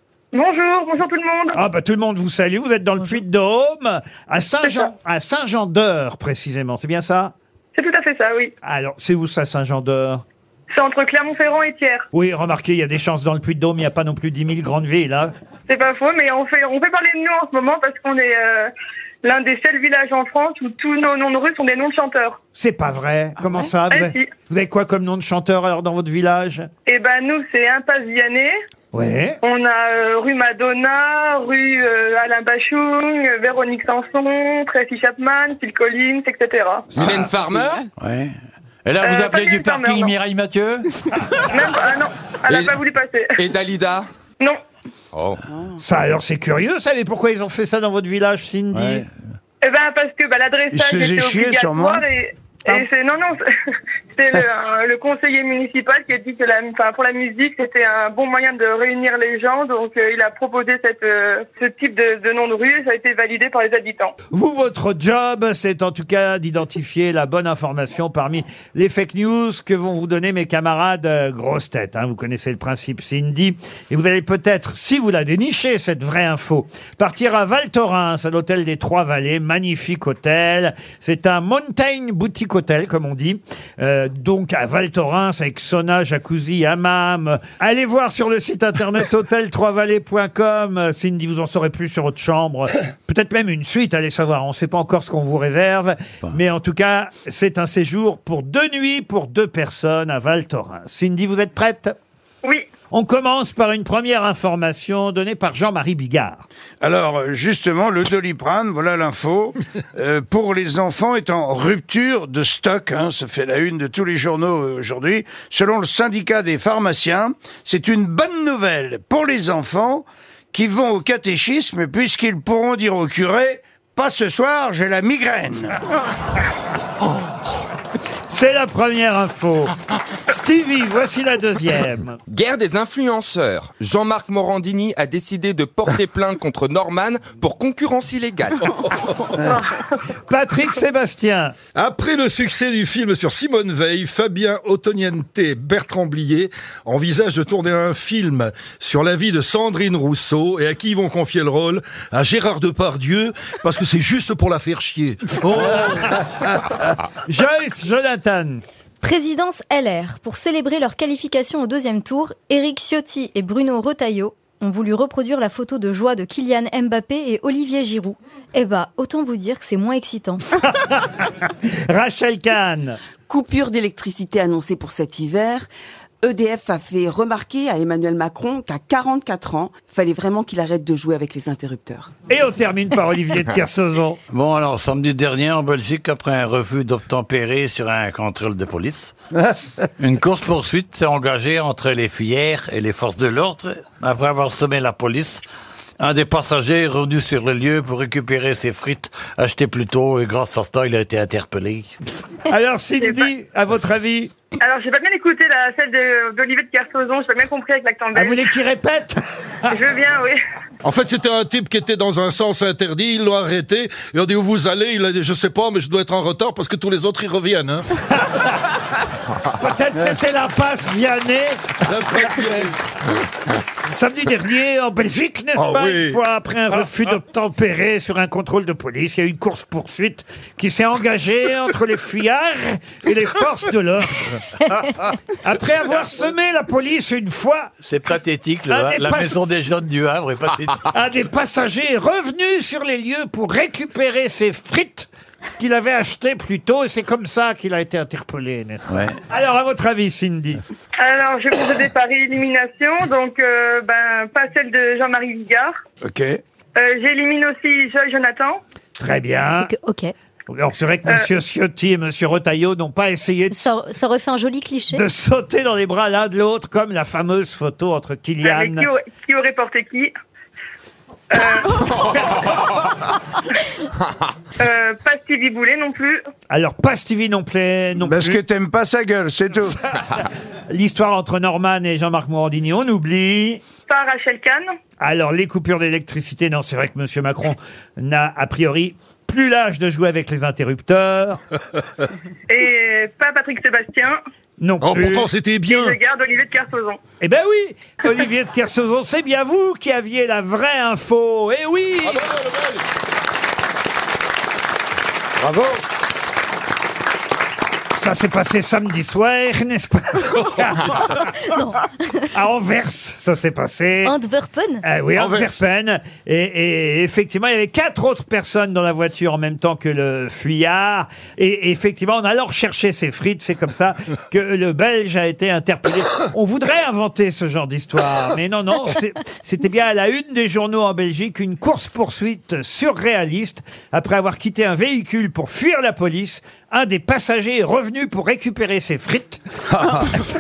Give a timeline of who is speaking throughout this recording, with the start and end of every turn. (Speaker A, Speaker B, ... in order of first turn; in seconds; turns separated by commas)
Speaker A: 0.3-1.6, Speaker B: 1.6-7.3, Speaker A: 4.7-4.9, Speaker A: 7.8-8.5, Speaker B: 8.6-10.2, Speaker A: 10.7-12.1, Speaker B: 12.1-15.3, Speaker A: 15.7-18.7, Speaker A: 19.2-22.4, Speaker B: 22.6-26.7, Speaker A: 23.9-24.3, Speaker A: 26.9-28.5, Speaker B: 28.9-29.4, Speaker A: 29.4-37.1, Speaker C: 37.0-37.9, Speaker D: 38.0-40.9, Speaker A: 39.0-40.2, Speaker A: 41.5-43.4, Speaker C: 42.5-42.8, Speaker C: 43.4-44.1, Speaker C: 45.1-45.4, Speaker B: 45.8-49.1, Speaker D: 48.7-49.1, Speaker A: 49.6-53.4, Speaker E: 50.7-52.0, Speaker A: 54.1-64.1, Speaker B: 64.3-102.0, Speaker B: 102.9-106.5, Speaker E: 106.8-125.8, Speaker B: 128.3-129.7, Speaker B: 130.3-132.2, Speaker C: 132.3-138.7, Speaker B: 140.3-141.6, Speaker F: 141.8-155.4, Speaker B: 155.4-156.5, Speaker B: 157.2-158.6, Speaker G: 159.0-170.5, Speaker B: 170.6-173.0, Speaker H: 173.3-175.7, Speaker H: 176.2-182.1, Speaker B: 182.3-184.2, Speaker D: 184.3-189.1, Speaker D: 190.0-195.4, Speaker D: 196.0-201.9, Speaker B: 202.5-204.3, Speaker A: 204.6-208.4, Speaker B: 208.2-209.7, Speaker A: 209.7-210.4, Speaker F: 210.8-217.9, Speaker B: 218.2-218.5, Speaker B: 219.5-221.7, Speaker F: 221.9-222.8, Speaker B: 223.9-234.4, Speaker F: 225.6-226.2, Speaker B: 235.4-237.7, Speaker D: 237.8-240.8, Speaker B: 238.7-239.5, Speaker B: 240.9-250.6, Speaker D: 248.9-249.2, Speaker A: 251.0-255.7, Speaker E: 256.0-256.4, Speaker A: 256.8-258.6, Speaker B: 259.0-259.7, Speaker G: 259.6-260.1, Speaker B: 260.5-263.7, Speaker G: 263.5-265.1, Speaker B: 264.9-268.9, Speaker A: 268.4-270.1, Speaker A: 271.3-272.6, Speaker A: 274.6-276.2, Speaker B: 276.5-278.4, Speaker E: 278.0-279.9, Speaker B: 280.7-283.6, Speaker A: 283.9-284.7, Speaker B: 285.0-291.4, Speaker A: 292.5-294.2, Speaker B: 294.6-295.3, Speaker F: 294.8-296.0, Speaker A: 295.7-297.0, Speaker B: 297.2-302.2, Speaker F: 302.1-302.8, Speaker B: 305.4-305.8, Speaker B: 307.9-311.3, Speaker G: 311.2-312.3, Speaker B: 312.3-314.1, Speaker G: 314.1-314.9, Speaker B: 314.8-339.4, Speaker F: 315.2-315.5, Speaker E: 339.7-340.1